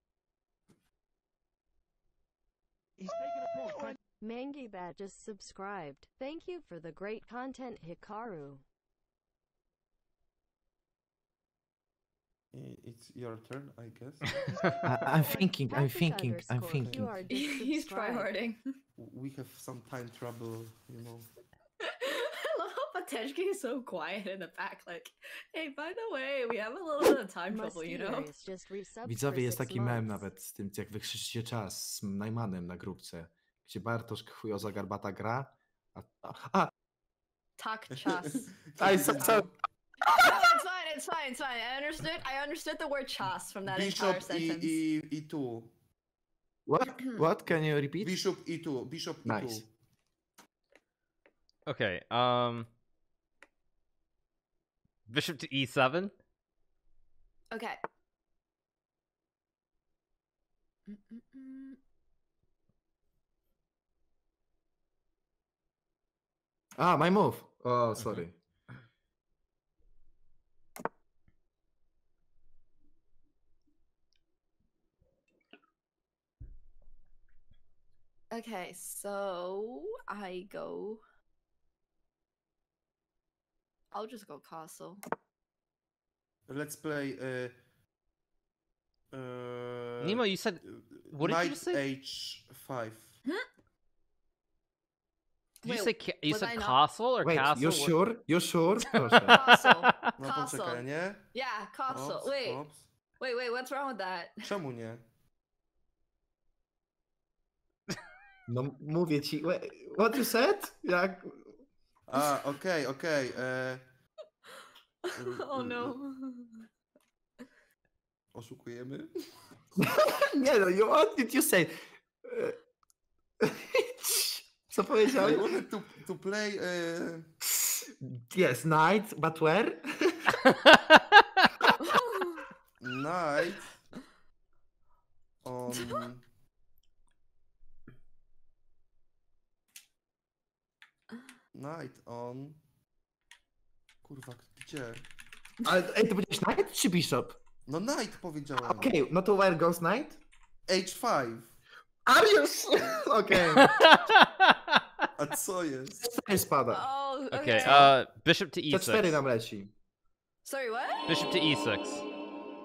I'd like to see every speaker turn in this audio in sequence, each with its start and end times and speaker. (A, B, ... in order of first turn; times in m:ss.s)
0:04.2-0:08.6 A
0:12.5-0:14.4 B
0:14.8-0:17.1 C
0:15.7-0:18.4 A
0:16.8-0:17.1 B
0:17.3-0:18.6 D
0:19.0-0:21.3 B
0:21.8-0:28.3 D
0:27.5-0:30.3 A
0:29.0-0:36.7 C
0:37.6-0:38.6 D
0:38.0-0:39.5 B
0:38.8-0:39.5 C
0:40.1-0:40.4 C
0:40.1-0:44.8 D
0:43.7-0:45.7 B
0:46.7-0:48.2 C
0:48.0-0:49.7 B
0:49.2-0:49.6 C
0:51.7-0:52.7 E
0:55.1-0:56.1 E
0:57.5-0:57.8 D
1:00.9-1:01.8 D
1:06.8-1:08.4 C
1:18.3-1:21.0 D
1:23.9-1:25.0 D
1:26.5-1:27.5 B
1:29.1-1:33.2 B
1:30.0-1:31.8 E
1:35.6-1:36.8 D
1:35.6-1:38.0 E
1:37.2-1:39.4 C
1:39.1-1:40.1 E
1:39.3-1:42.6 D
1:40.2-1:41.2 B
1:41.9-1:42.8 B
1:43.2-1:44.4 D
1:44.4-1:45.0 B
1:48.5-1:51.5 C
1:52.1-1:53.8 B
1:55.0-1:56.7 D
1:55.2-1:56.0 B
1:58.3-1:59.1 B
1:59.8-2:02.6 C
2:03.4-2:05.5 C
2:05.2-2:07.3 B
2:07.4-2:10.4 C
2:11.8-2:12.5 D
2:12.8-2:13.7 B
2:15.4-2:16.2 B
2:15.8-2:16.0 D
2:21.5-2:22.6 B
2:24.0-2:25.0 B
2:25.6-2:27.4 C
2:27.7-2:28.9 B
2:28.6-2:30.2 C
2:30.7-2:31.5 B
2:32.1-2:33.9 C
2:33.4-2:34.8 E
2:35.2-2:36.0 B
2:36.0-2:36.9 C
2:36.7-2:37.9 D
2:37.3-2:39.2 E
2:37.6-2:37.9 C
2:38.7-2:39.7 C
2:40.4-2:41.3 D
2:41.1-2:42.0 E